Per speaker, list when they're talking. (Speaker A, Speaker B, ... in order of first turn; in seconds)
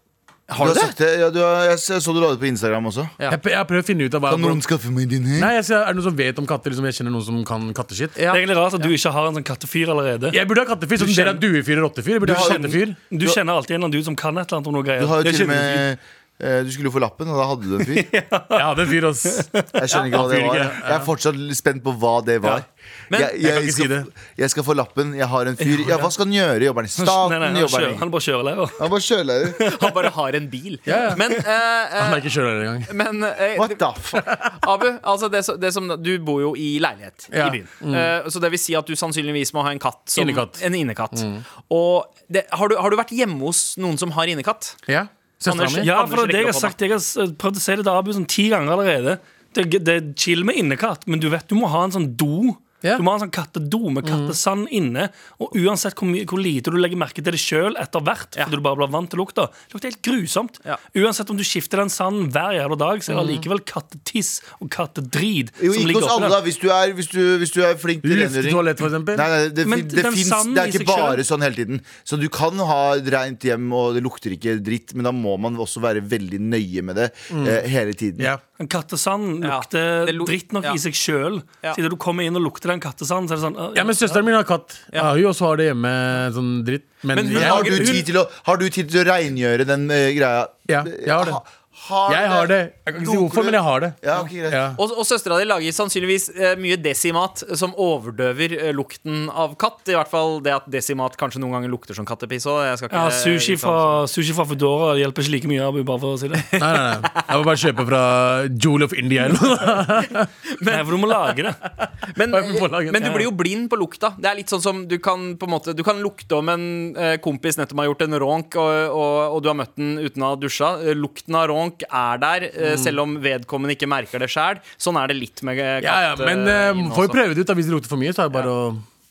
Speaker A: 0.5-0.9, 8.1-8.9, 29.6-32.3, 32.9-44.8, 45.5-46.7, 79.4-80.8, 87.1-88.0, 94.8-104.0, 107.0-107.4, 110.6-111.1, 112.1-127.2
Speaker B: 0.6-3.1, 4.3-5.5, 12.2-13.4, 15.0-18.1, 19.8-28.0, 28.8-29.6, 33.5-34.2, 65.6-78.3, 87.3-94.7
Speaker C: 3.3-4.6, 5.4-8.2, 10.3-13.0, 18.5-21.1, 23.4-24.1, 30.9-31.4, 32.0-32.9, 34.2-34.5, 37.3-38.1, 40.1-41.4, 44.9-45.9, 54.0-54.4, 63.1-63.4, 68.0-69.3, 77.3-77.6, 83.8-88.0, 90.7-91.4, 92.1-94.8, 106.5-110.3, 112.3-113.2, 122.6-123.0, 125.8-128.8
Speaker D: 8.3-10.4, 11.0-11.4, 12.2-15.9, 17.9-19.6, 27.0-28.9, 29.6-30.1, 45.8-66.4, 69.6-71.2, 78.6-84.2, 102.9-106.5, 110.7-111.6